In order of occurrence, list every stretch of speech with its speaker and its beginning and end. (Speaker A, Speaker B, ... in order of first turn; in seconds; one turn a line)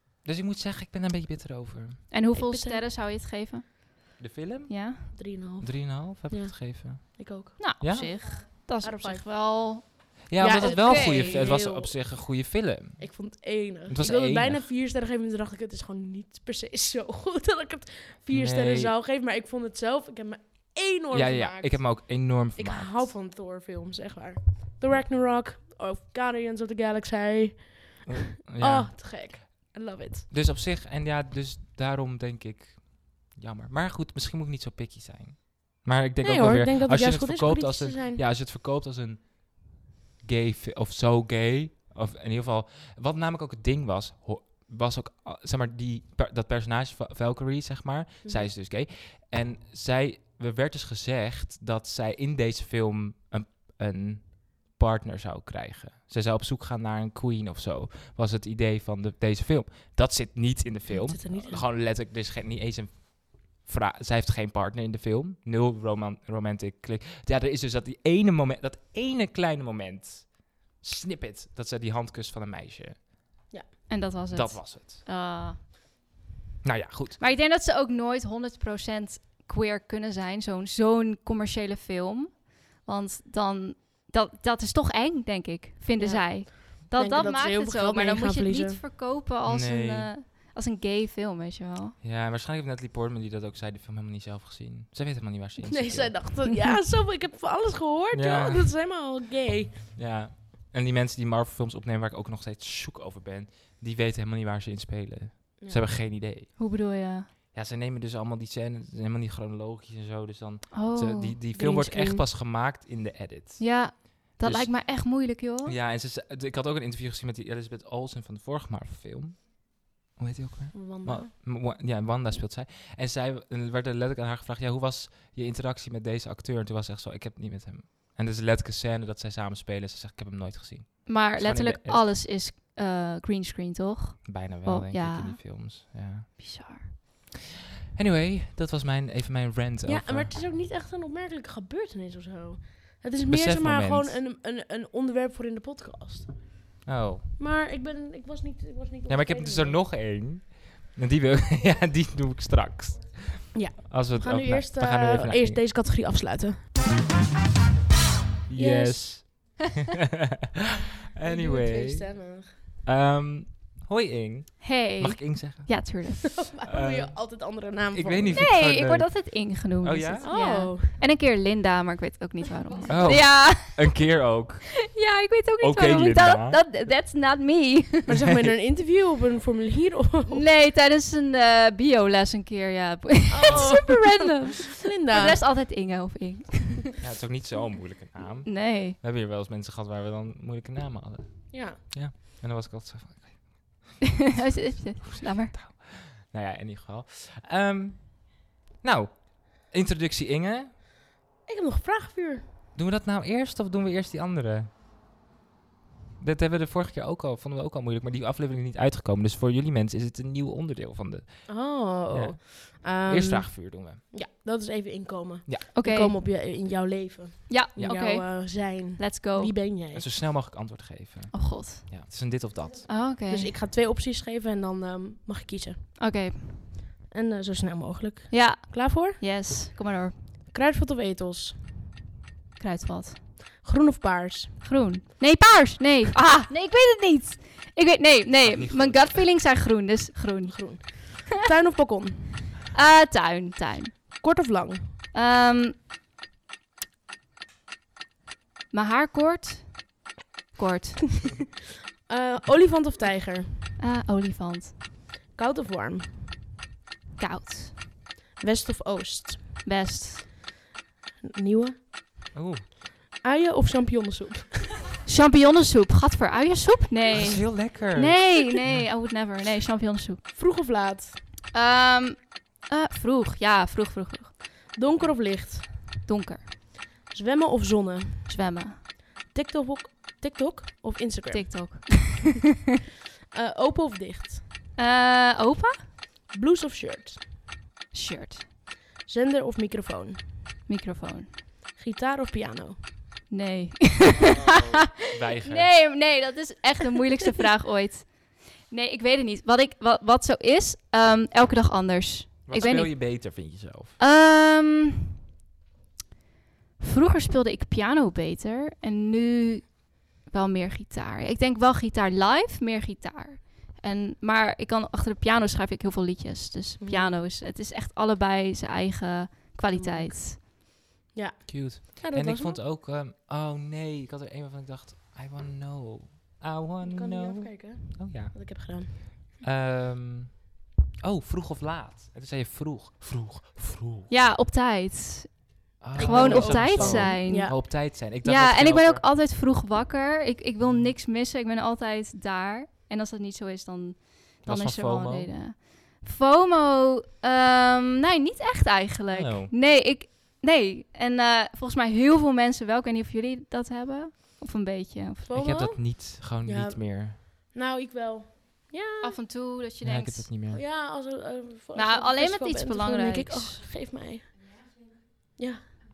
Speaker A: 0.2-2.1
Speaker B: 2.1-5.1
Speaker C: 2.3-2.8
Speaker A: 4.2-8.3
Speaker C: 5.1-8.2
Speaker B: 7.6-11.5
Speaker C: 8.8-9.3
Speaker A: 10.3-13.3
Speaker C: 10.4-11.9
Speaker C: 13.0-30.3
Speaker A: 13.9-14.7
Speaker A: 18.3-18.9
Speaker A: 21.1-23.1
Speaker A: 28.0-29.7
Speaker A: 30.3-73.1
Speaker C: 36.2-38.2
Speaker C: 48.2-48.5
Speaker C: 60.9-61.6
Speaker B: 73.9-75.6
Speaker A: 74.3-75.0
Speaker A: 76.6-77.2
Speaker B: 77.2-92.0
Speaker C: 86.0-88.8
Speaker A: 89.4-90.1
Speaker A: 92.0-96.2
Speaker C: 95.6-99.8
Speaker A: 98.1-98.7
Speaker A: 100.0-106.6
Speaker C: 105.6-105.8
Speaker B: 106.6-107.3
Speaker A: 107.5-115.1
Speaker B: 110.7-111.4
Speaker C: 111.5-112.2
Speaker B: 113.6-115.7
Speaker A: 115.6-132.1
Speaker C: 120.7-121.3
Speaker B: 131.1-135.6
Speaker A: 134.2-136.5
Speaker B: 136.4-137.0
Speaker A: 137.9-140.3
Speaker C: 139.8-146.7
Speaker A: 143.3-144.2
Speaker A: 146.8-147.2
Speaker C: 147.4-149.8
Speaker A: 149.1-155.6
Speaker C: 153.5-156.7
Speaker A: 158.5-159.9
Speaker C: 158.6-159.0
Speaker A: 161.1-166.0
Speaker C: 161.2-162.5
Speaker B: 164.6-166.5
Speaker C: 166.3-168.5
Speaker A: 166.7-170.3
Speaker B: 168.3-174.0
Speaker C: 170.2-170.9
Speaker A: 172.9-174.8
Speaker B: 174.9-178.1
Speaker A: 175.6-176.6
Speaker C: 178.1-180.4
Speaker A: 178.2-178.5
Speaker B: 180.3-186.9
Speaker C: 183.3-185.4
Speaker A: 183.5-183.8
Speaker A: 187.0-193.8
Speaker B: 188.4-188.9
Speaker C: 191.5-191.8
Speaker B: 194.3-195.6
Speaker A: 195.2-200.7
Speaker C: 201.4-202.4
Speaker A: 202.7-204.7
Speaker A: 206.2-214.0
Speaker C: 211.5-220.1
Speaker B: 215.7-216.1
Speaker B: 217.5-219.6
Speaker A: 219.9-222.9
Speaker B: 221.3-221.9
Speaker B: 222.9-223.5
Speaker C: 223.3-225.9
Speaker B: 226.0-226.7
Speaker C: 227.1-229.2
Speaker B: 228.3-230.2
Speaker C: 230.5-231.6
Speaker B: 232.6-233.3
Speaker C: 233.6-234.7
Speaker B: 234.6-241.2
Speaker A: 238.4-239.2
Speaker C: 240.5-242.5
Speaker B: 242.7-244.2
Speaker C: 244.2-244.9
Speaker B: 245.1-245.8
Speaker B: 248.7-250.0
Speaker B: 250.5-251.2
Speaker C: 252.1-253.7
Speaker B: 253.8-254.8
Speaker C: 255.3-256.5
Speaker B: 257.2-257.8
Speaker C: 258.4-259.6
Speaker B: 259.6-260.3
Speaker C: 261.2-261.8
Speaker A: 262.3-262.6
Speaker C: 263.2-264.8
Speaker B: 265.1-270.2
Speaker A: 267.1-268.8
Speaker C: 270.3-271.2
Speaker B: 271.5-274.4
Speaker C: 274.7-276.0
Speaker B: 276.1-276.5
Speaker C: 277.0-278.4
Speaker B: 278.3-278.8
Speaker C: 279.2-281.9
Speaker B: 281.3-282.4
Speaker C: 283.3-284.4
Speaker B: 284.8-285.9
Speaker C: 286.3-287.2
Speaker B: 287.9-288.4
Speaker C: 289.0-290.3
Speaker B: 290.7-291.4
Speaker C: 291.8-292.9
Speaker B: 293.3-294.9
Speaker A: 294.1-295.8
Speaker B: 295.4-303.2
Speaker A: 302.5-304.0
Speaker B: 304.0-305.1
Speaker B: 306.8-320.4
Speaker C: 316.8-317.2
Speaker C: 319.7-320.5
Speaker C: 321.1-322.6
Speaker A: 321.5-334.1
Speaker C: 326.8-329.1
Speaker B: 334.1-355.4
Speaker A: 335.8-339.0
Speaker C: 335.9-337.6
Speaker A: 340.6-340.9
Speaker A: 344.4-345.3
Speaker A: 349.1-349.5
Speaker C: 355.2-359.1
Speaker A: 355.3-357.2
Speaker B: 359.0-360.3
Speaker A: 359.8-360.6
Speaker C: 360.5-364.3
Speaker B: 361.7-363.6
Speaker C: 365.4-365.6